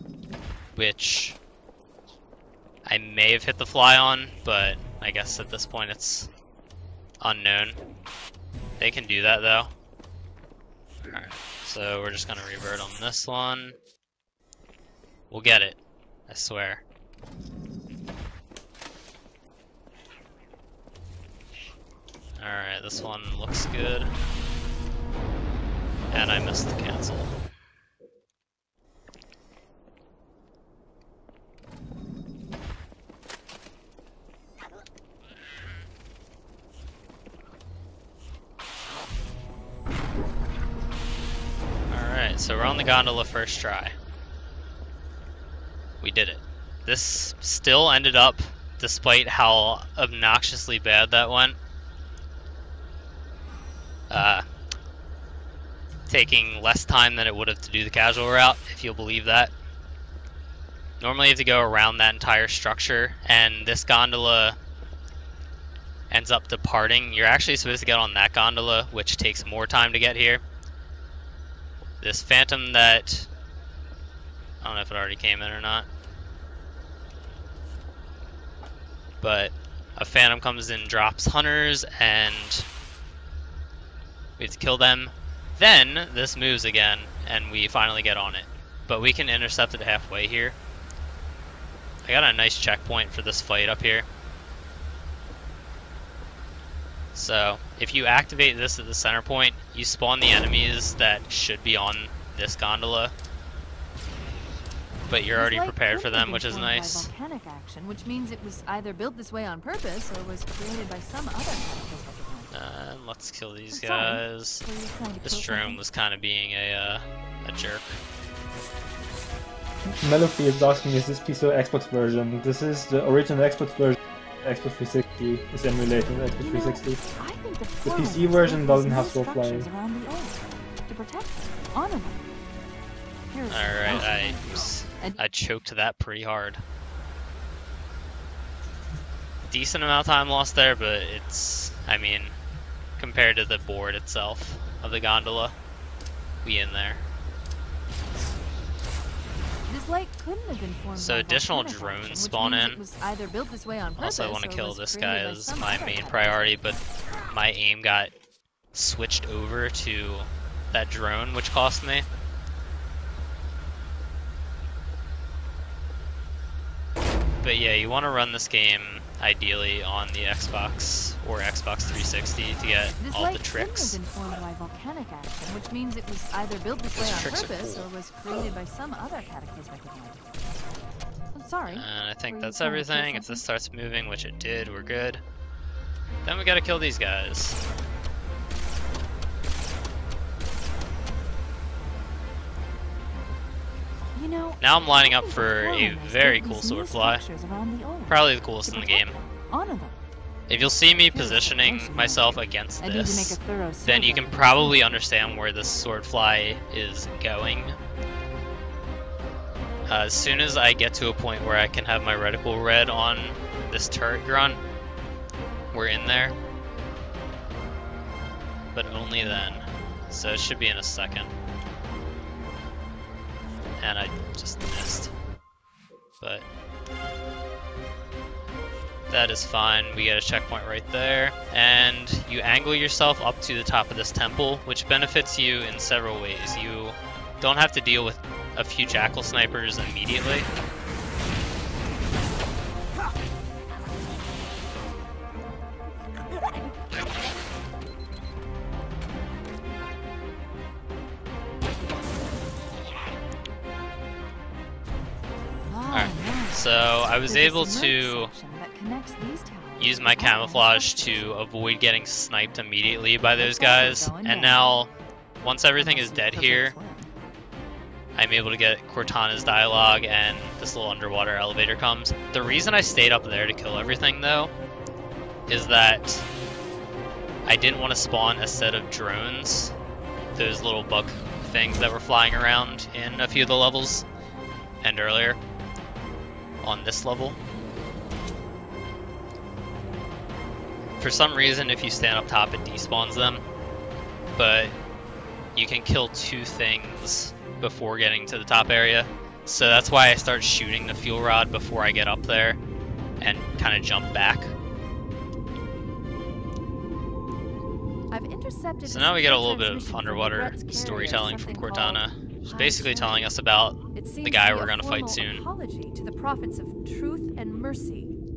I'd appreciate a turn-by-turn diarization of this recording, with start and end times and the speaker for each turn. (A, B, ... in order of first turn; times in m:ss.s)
0:00.8-0:01.4 A
0:02.9-0:06.3 A
0:07.2-0:07.8 A
0:08.8-0:09.7 A
0:11.1-0:13.8 A
0:15.3-0:16.8 A
0:22.4-0:24.1 A
0:26.1-0:27.4 A
0:41.9-0:44.0 A
0:46.0-0:51.6 A
0:54.1-0:54.4 A
0:56.1-0:59.5 A
1:01.0-1:04.6 A
1:06.1-1:10.4 A
1:12.0-1:13.3 A
1:14.6-1:15.9 A
1:19.2-1:22.7 A
1:24.4-1:30.6 A
1:32.0-1:34.1 A
1:37.1-1:43.1 A
1:45.1-1:47.1 A
1:45.4-1:52.5 B
1:52.5-1:54.6 A
1:53.7-1:55.8 B
1:55.2-1:58.0 A
2:00.0-2:07.0 C
2:06.4-2:12.2 B
2:07.8-2:09.7 C
2:13.3-2:15.2 B
2:13.5-2:16.6 A
2:19.5-2:22.4 A
2:23.0-2:25.6 A
2:26.4-2:27.0 A
2:29.7-2:36.6 B
2:31.0-2:32.8 A
2:34.0-2:38.1 A
2:38.7-2:42.1 A
2:47.4-2:54.0 A
2:53.0-3:00.2 B
2:56.9-2:57.9 A
3:01.3-3:03.4 B
3:01.7-3:05.2 A
3:06.2-3:07.6 A
3:14.1-3:20.0 B
3:14.6-3:17.2 A
3:18.1-3:19.2 A
3:20.5-3:27.8 A
3:21.1-3:24.9 B
3:29.9-3:34.6 A
3:35.7-3:36.4 A
3:38.7-3:41.3 A
3:43.8-3:45.1 A
3:49.1-4:00.5 A
4:15.6-4:21.4 B
4:15.9-4:18.3 A
4:19.8-4:24.9 A
4:23.4-4:24.8 B
4:25.4-4:26.8 A
4:25.8-4:27.1 B
4:28.2-4:34.5 A
4:35.5-4:36.3 A
4:37.4-4:39.7 A
4:40.4-4:44.1 A
4:44.8-4:45.4 A
4:46.6-4:47.4 A
4:51.0-4:53.4 A
4:54.4-4:54.8 A
4:55.6-5:02.6 A
5:03.2-5:04.5 A
5:08.1-5:13.3 B
5:08.8-5:15.4 A
5:14.0-5:18.1 B